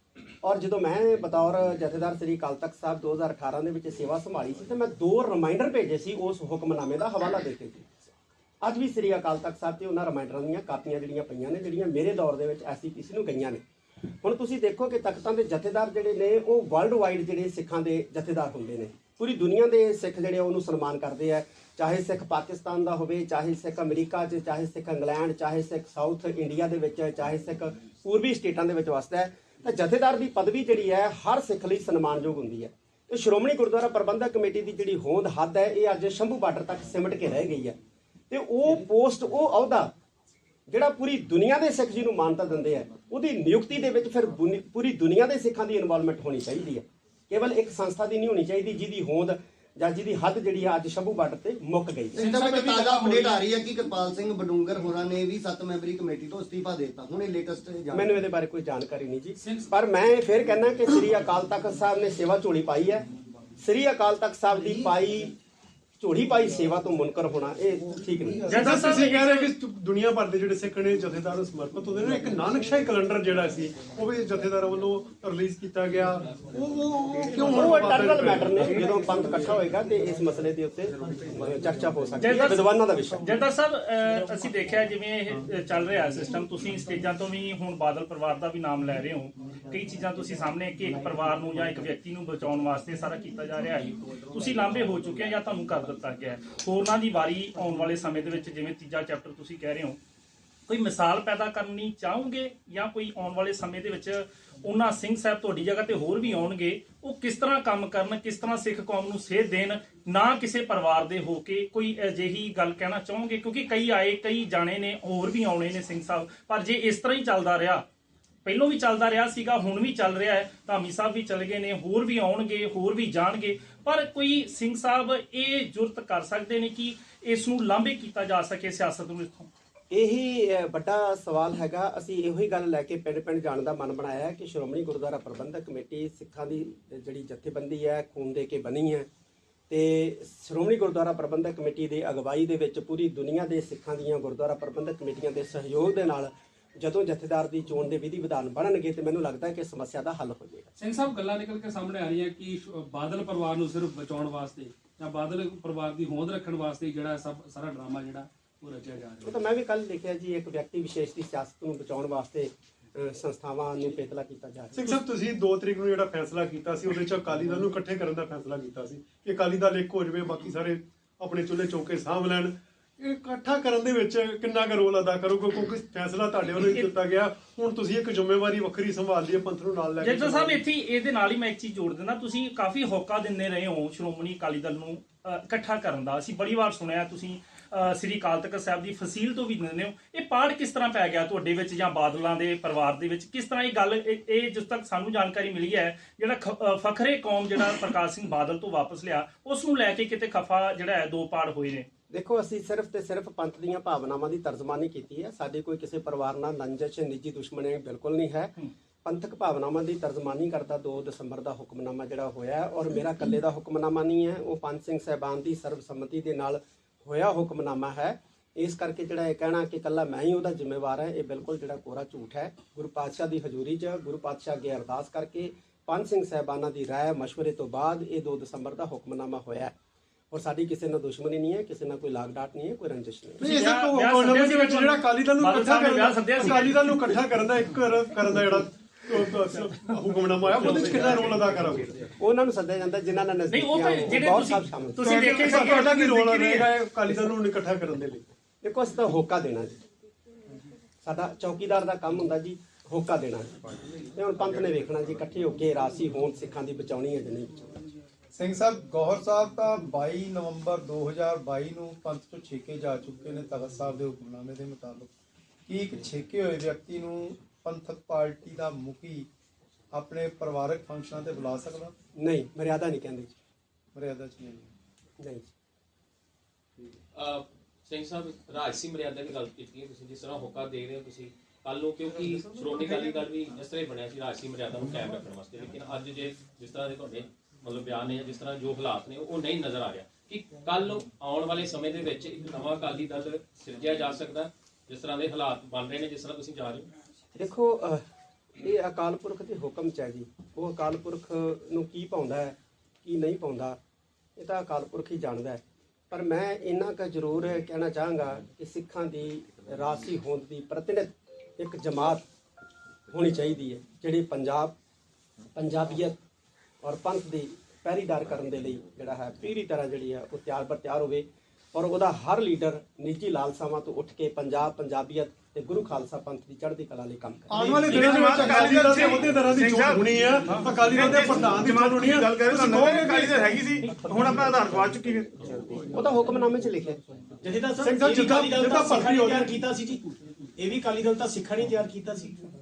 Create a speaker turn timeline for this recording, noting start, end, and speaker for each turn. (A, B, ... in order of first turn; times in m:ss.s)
0:00.4-0:07.8 A
0:08.6-0:13.6 A
0:14.2-0:37.7 A
0:38.3-0:39.9 A
0:40.7-0:52.2 A
0:52.1-0:58.1 B
0:52.2-0:53.5 C
0:57.9-1:03.0 A
0:59.4-0:59.7 C
1:03.6-1:05.3 A
1:06.0-1:08.6 A
1:08.5-1:09.5 D
1:08.5-1:18.8 E
1:17.5-1:23.2 A
1:22.2-1:22.7 D
1:23.2-1:40.0 D
1:40.7-1:57.8 D
1:58.4-2:09.5 D
2:09.9-2:19.1 A
2:19.7-2:30.7 A
2:30.8-2:39.3 C
2:39.2-2:45.0 A
2:44.7-3:00.6 E
3:00.0-3:21.9 D
3:22.1-3:49.7 A
3:50.3-3:53.4 A
3:53.4-4:02.0 E
3:53.4-3:57.0 D
4:00.6-4:01.4 D
4:02.2-4:05.3 A
4:03.5-4:05.9 D
4:05.0-4:08.2 E
4:05.0-4:06.7 F
4:08.6-4:09.8 A
4:11.0-4:13.5 A
4:14.1-4:17.5 A
4:18.3-4:25.1 G
4:25.7-4:29.3 G
4:29.9-4:31.9 G
4:32.2-4:33.3 A
4:33.9-4:34.7 G
4:35.2-4:35.5 A
4:37.1-4:56.9 H
4:57.3-4:58.0 A
4:58.6-5:03.8 A
5:04.4-5:12.2 A
5:13.1-5:14.7 A
5:15.5-5:16.2 A
5:16.8-5:27.8 A
5:27.5-5:33.4 E
5:27.6-5:35.3 F
5:35.9-5:37.0 A
5:37.5-5:39.6 I
5:37.8-5:39.5 E
5:40.6-5:42.2 I